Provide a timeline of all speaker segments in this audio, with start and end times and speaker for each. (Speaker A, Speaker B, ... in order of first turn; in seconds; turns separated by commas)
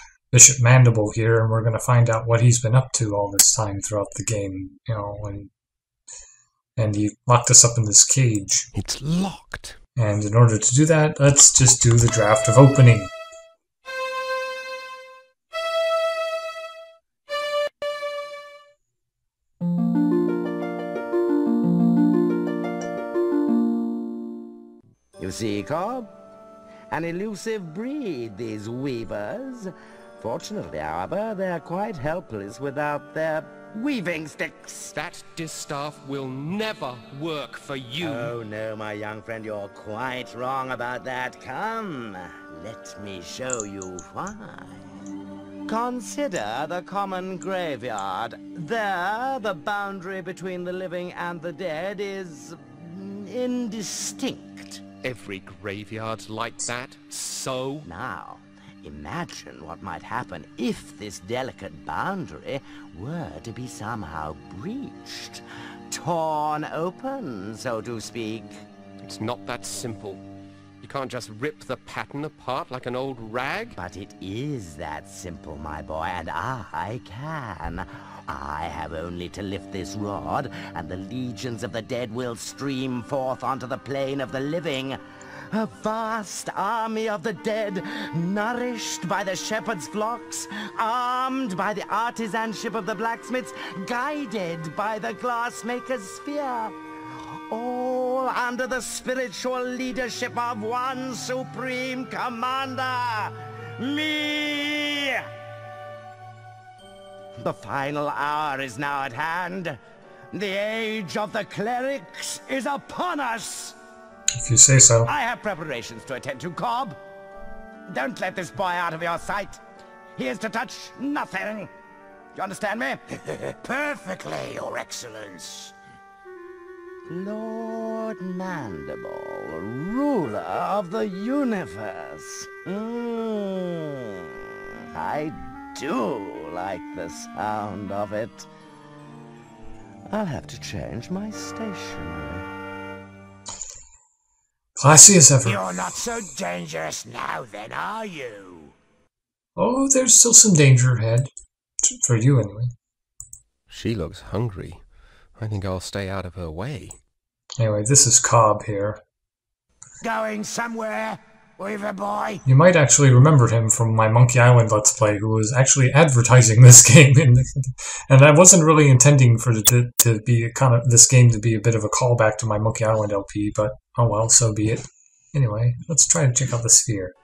Speaker A: 0.3-5.5, Speaker A: 6.8-8.7, Speaker B: 8.8-9.8, Speaker A: 10.0-13.1, Speaker C: 25.2-26.1, Speaker C: 26.9-34.9, Speaker B: 34.9-38.3, Speaker C: 38.0-44.9, Speaker C: 45.6-54.8, Speaker B: 55.0-57.9, Speaker C: 57.9-68.6, Speaker B: 69.0-70.2, Speaker B: 70.8-73.8, Speaker C: 73.8-85.0, Speaker C: 85.5-96.8, Speaker C: 97.5-105.3, Speaker C: 107.4-109.8, Speaker C: 110.3-113.8, Speaker A: 114.4-115.1, Speaker C: 115.1-117.0, Speaker C: 117.9-119.6, Speaker C: 120.2-121.7, Speaker C: 122.4-123.2, Speaker D: 123.6-125.7, Speaker C: 127.1-134.3, Speaker C: 134.9-138.5, Speaker C: 140.1-142.5, Speaker A: 144.8-145.9, Speaker D: 145.4-148.7, Speaker A: 149.6-151.3, Speaker A: 151.8-152.7, Speaker B: 153.7-154.8, Speaker B: 155.4-157.0, Speaker A: 157.6-159.0, Speaker D: 160.0-162.4, Speaker A: 162.5-177.1